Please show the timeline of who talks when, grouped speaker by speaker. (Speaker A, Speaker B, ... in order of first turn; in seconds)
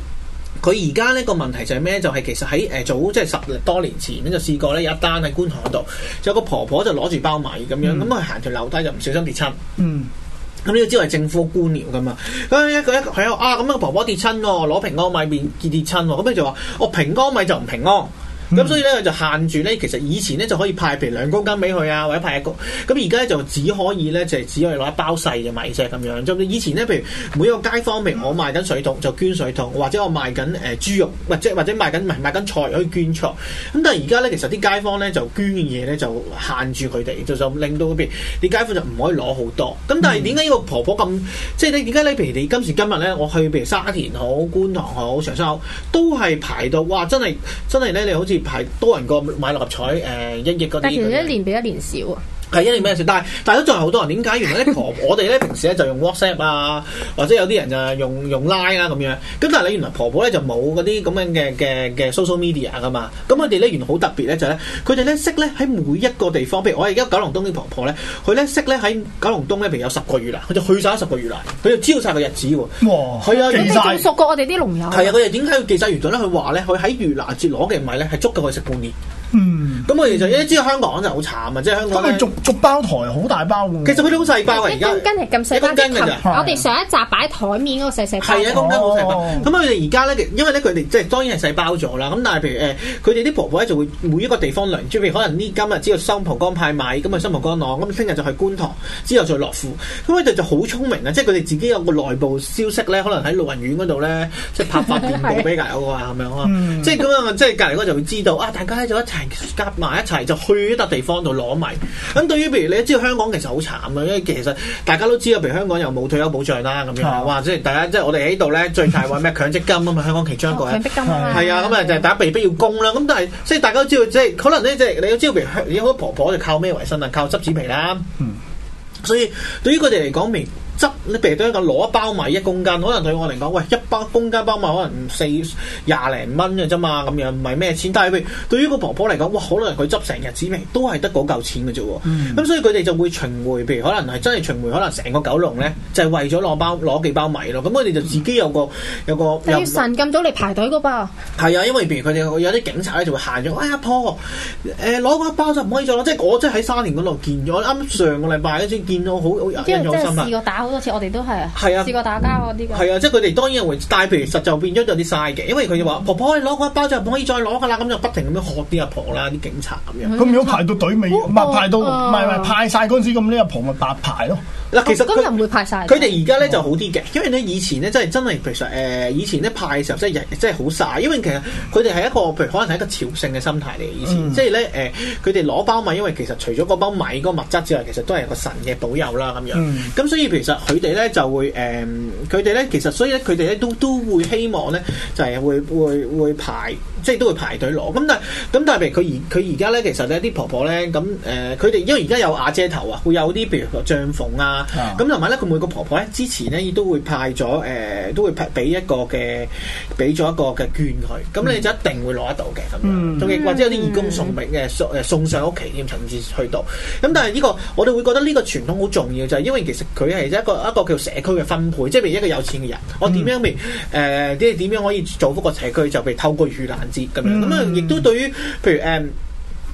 Speaker A: 0.6-9.6, 10.7-51.3, 52.5-73.8, 74.9-79.0, 79.9-82.3, 83.8-86.3, 88.2-128.1, 129.0-149.8, 151.4-160.3, 161.6-161.9, 162.7-170.1, 174.7-175.3, 175.9-229.1
Speaker B: 7.8-8.1, 9.8-10.1, 18.5-18.8, 40.0-40.4, 72.8-74.0, 79.3-79.9, 81.9-84.3, 86.2-86.6, 88.5-89.5, 106.4-107.0, 117.0-117.3, 121.0-121.4, 142.1-142.4, 170.2-174.4, 176.4-176.7, 184.1-184.4, 189.5-189.9, 204.7-205.0, 212.8-213.4, 223.1-223.3, 227.2-228.1
Speaker C: 50.8-52.2, 73.3-75.2, 84.5-88.8, 104.8-105.5, 120.5-122.1, 149.4-151.1, 159.6-162.9, 170.0-172.6, 174.8-176.2, 213.3-214.3